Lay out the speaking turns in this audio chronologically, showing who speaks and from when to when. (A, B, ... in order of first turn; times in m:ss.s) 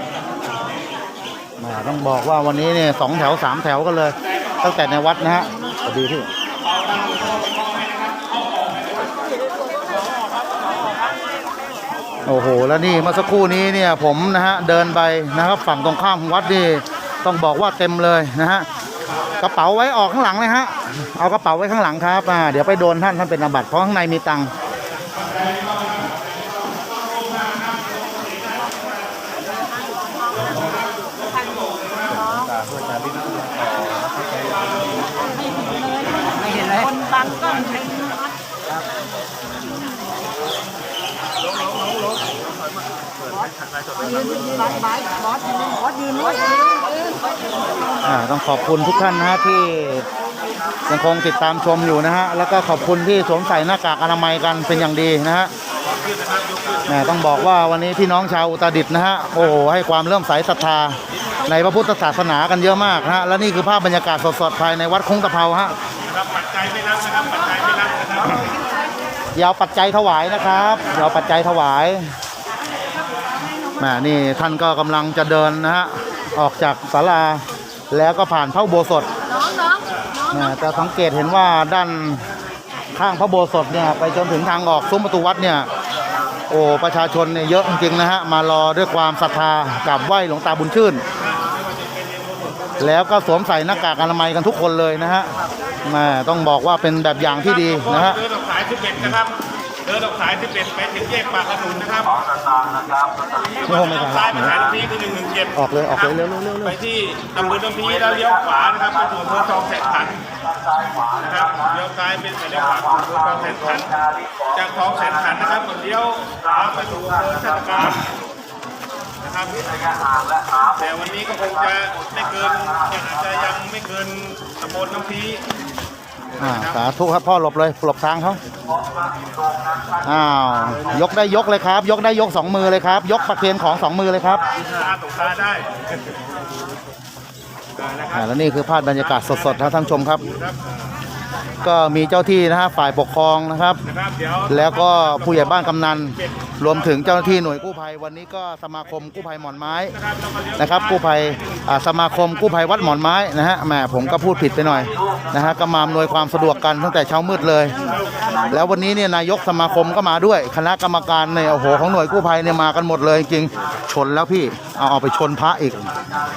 0:01.6-0:06.3 A
0:06.7-0:08.9 B
0:12.3-0:18.7 A
0:19.4-0:24.5 A
0:25.2-0:28.8 B
0:30.3-0:32.6 B
0:35.6-0:38.3 C
0:44.0-0:47.2 C
0:48.0-0:50.1 A
0:50.9-0:55.5 A
0:56.1-0:56.9 B
0:56.9-1:05.8 A
1:06.1-1:08.5 B
1:09.4-1:12.2 A
1:13.8-1:19.1 A
1:19.3-1:19.8 C
1:20.3-1:22.2 A
1:23.0-1:25.7 A
1:26.5-1:31.0 A
1:31.3-1:32.6 B
1:32.8-1:35.3 A
1:35.8-1:38.2 A
1:37.4-1:42.4 B
1:43.6-1:45.6 B
1:43.6-1:44.7 A
1:45.5-1:46.8 A
1:46.1-1:50.2 B
1:51.0-1:58.1 B
1:59.2-1:59.8 B
2:00.5-2:05.4 B
2:06.4-2:08.4 A
2:10.0-2:14.4 A
2:14.6-2:15.7 B
2:17.8-2:18.2 B
2:18.1-2:20.2 A
2:19.0-2:20.6 B
2:21.6-2:23.8 A
2:23.9-2:27.2 B
2:24.5-2:30.0 A
2:30.0-2:30.9 B
2:30.6-2:45.9 A